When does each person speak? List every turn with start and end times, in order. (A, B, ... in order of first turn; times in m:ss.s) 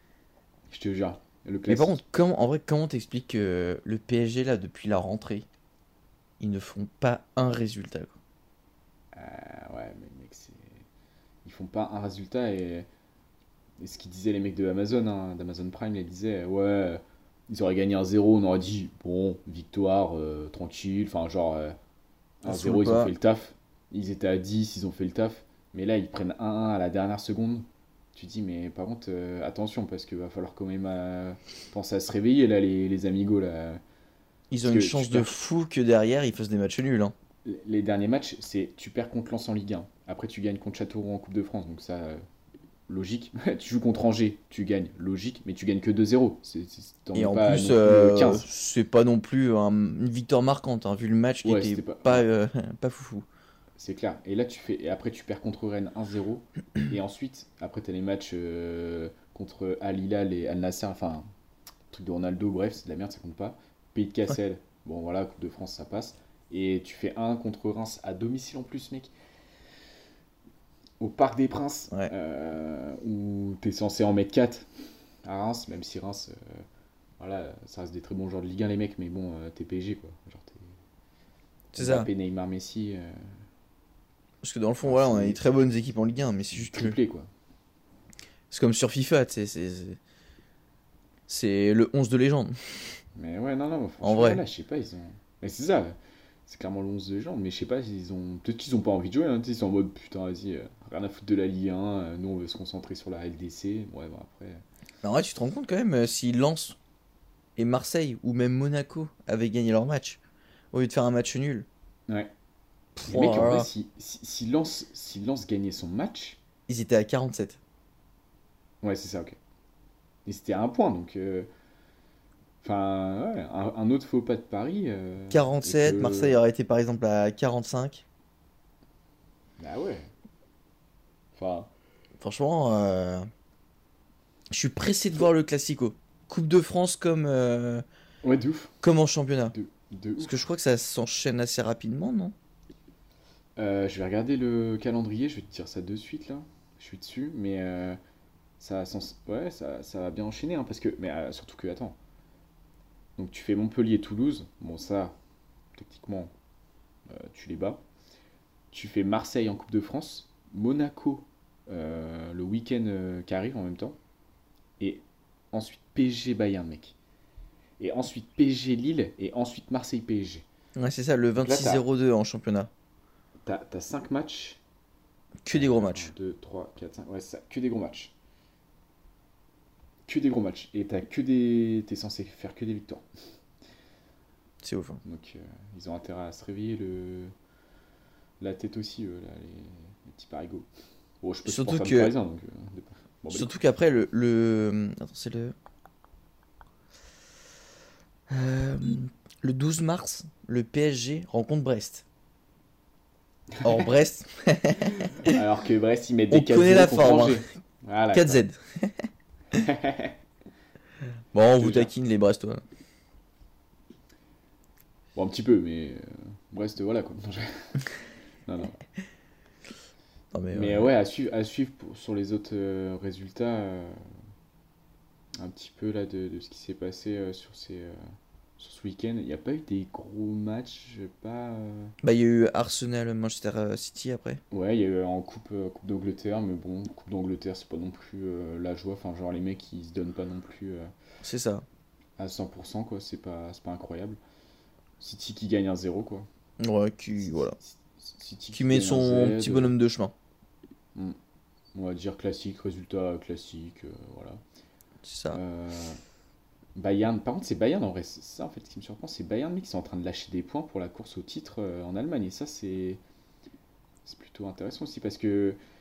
0:00.7-0:02.0 A
0:01.7-0:05.4 B
0:06.4-0:08.1 B
0:09.1-0:10.8 A
0:11.4-0:12.9 A
0:13.8-0:21.8 A
0:22.4-0:33.8 A
0:22.4-0:23.1 B
0:34.5-0:37.1 B
0:34.6-0:35.4 A
0:37.4-0:42.2 A
0:42.9-0:48.5 A
0:47.1-0:53.2 B
0:51.4-0:52.2 A
0:53.8-1:01.2 A
1:01.9-1:09.1 A
1:11.0-1:14.7 A
1:15.2-1:16.6 A
1:17.2-1:20.7 A
1:21.7-1:22.1 B
1:21.8-1:23.1 A
1:24.4-1:27.0 B
1:24.8-1:25.4 A
1:26.5-1:27.3 A
1:28.5-1:30.0 B
1:31.3-1:32.6 B
1:33.2-1:36.0 A
1:34.0-1:34.4 B
1:36.5-1:44.6 A
1:45.0-1:46.8 B
1:47.6-1:50.2 B
1:50.7-1:51.7 B
1:53.0-1:53.7 B
1:53.1-1:56.4 A
1:56.7-1:57.6 B
1:58.8-1:59.4 A
2:00.2-2:01.5 A
2:02.6-2:06.4 A
2:05.3-2:08.0 B
2:09.6-2:10.1 A
2:11.4-2:11.7 A
2:12.2-2:13.2 B
2:14.5-2:17.8 B
2:18.2-2:18.7 A
2:18.8-2:19.6 B
2:19.5-2:20.4 A
2:20.2-2:22.3 B
2:23.6-2:28.0 A
2:28.6-2:32.0 A
2:33.2-2:35.2 A
2:35.8-2:36.3 A
2:37.1-2:37.8 A
2:38.7-2:44.0 A
2:44.8-2:47.0 A
2:47.8-2:50.4 A
2:50.8-2:52.7 B
2:51.4-2:51.8 A
2:53.4-2:54.6 A
2:55.4-2:56.1 B
2:55.5-2:58.1 A
3:00.1-3:03.0 A
3:04.6-3:05.0 B
3:05.0-3:07.3 A
3:08.4-3:10.7 A
3:11.2-3:13.5 A
3:11.4-3:12.1 B
3:13.3-3:15.6 B
3:18.3-3:22.0 B
3:23.6-3:25.4 B
3:25.3-3:28.4 A
3:26.3-3:27.4 B
3:28.1-3:29.0 B
3:29.5-3:30.1 A
3:31.3-3:32.6 B
3:31.6-3:31.9 A
3:35.1-3:37.9 A
3:38.5-3:38.8 A
3:40.3-3:40.9 B
3:40.5-3:44.0 A
3:45.4-3:48.0 A
3:48.6-3:51.9 A
3:52.0-3:54.4 B
3:54.5-4:00.9 A
4:01.2-4:01.6 B
4:02.2-4:04.2 A
4:05.0-4:06.3 A
4:06.6-4:07.6 B
4:07.2-4:09.7 A
4:08.5-4:10.1 B
4:11.8-4:14.4 A
4:15.0-4:15.4 B
4:15.3-4:16.0 A
4:16.8-4:23.0 A
4:24.0-4:25.6 A